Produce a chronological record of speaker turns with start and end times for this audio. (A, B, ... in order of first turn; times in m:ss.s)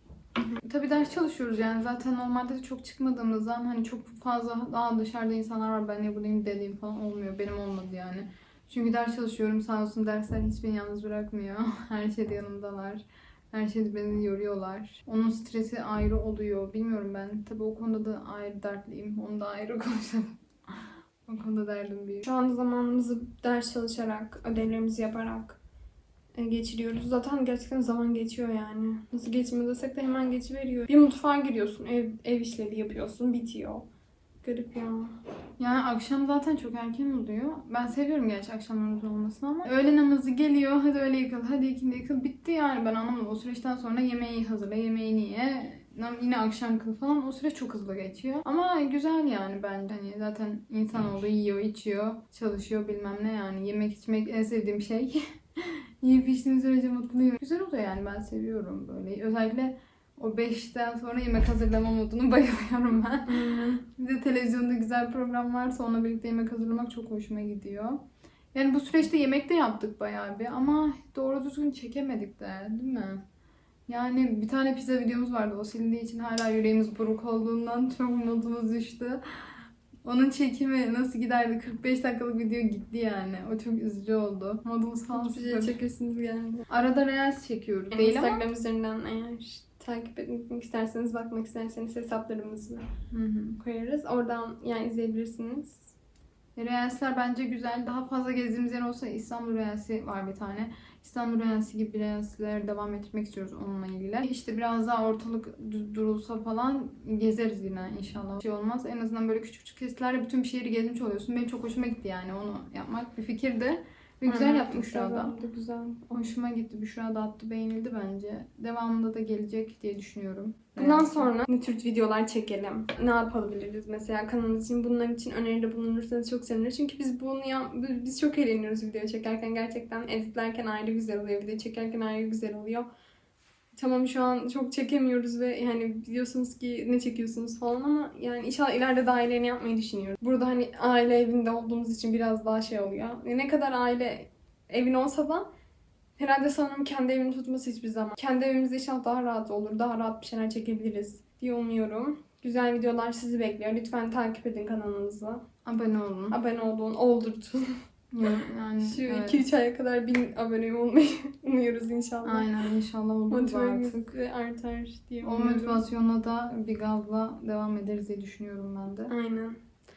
0:00.5-0:22.3 A
0:22.2-0:25.6 B
0:26.4-0:33.8 B
0:34.4-0:35.2 B
0:35.6-1:08.0 A
1:03.3-1:03.8 B
1:08.5-1:13.2 A
1:13.9-1:25.8 A
1:25.1-1:26.6 B
1:26.7-1:28.4 A
1:27.9-1:32.9 B
1:33.1-1:33.6 A
1:33.6-1:35.9 B
1:36.6-1:55.3 A
1:54.2-1:56.2 B
1:56.1-2:01.3 A
2:00.8-2:12.9 B
2:13.8-2:25.4 B
2:26.2-2:35.4 B
2:35.6-2:36.4 A
2:36.3-2:42.6 B
2:38.1-2:39.4 A
2:42.2-2:44.1 A
2:43.3-2:45.8 B
2:45.2-2:49.1 A
2:49.1-2:49.6 B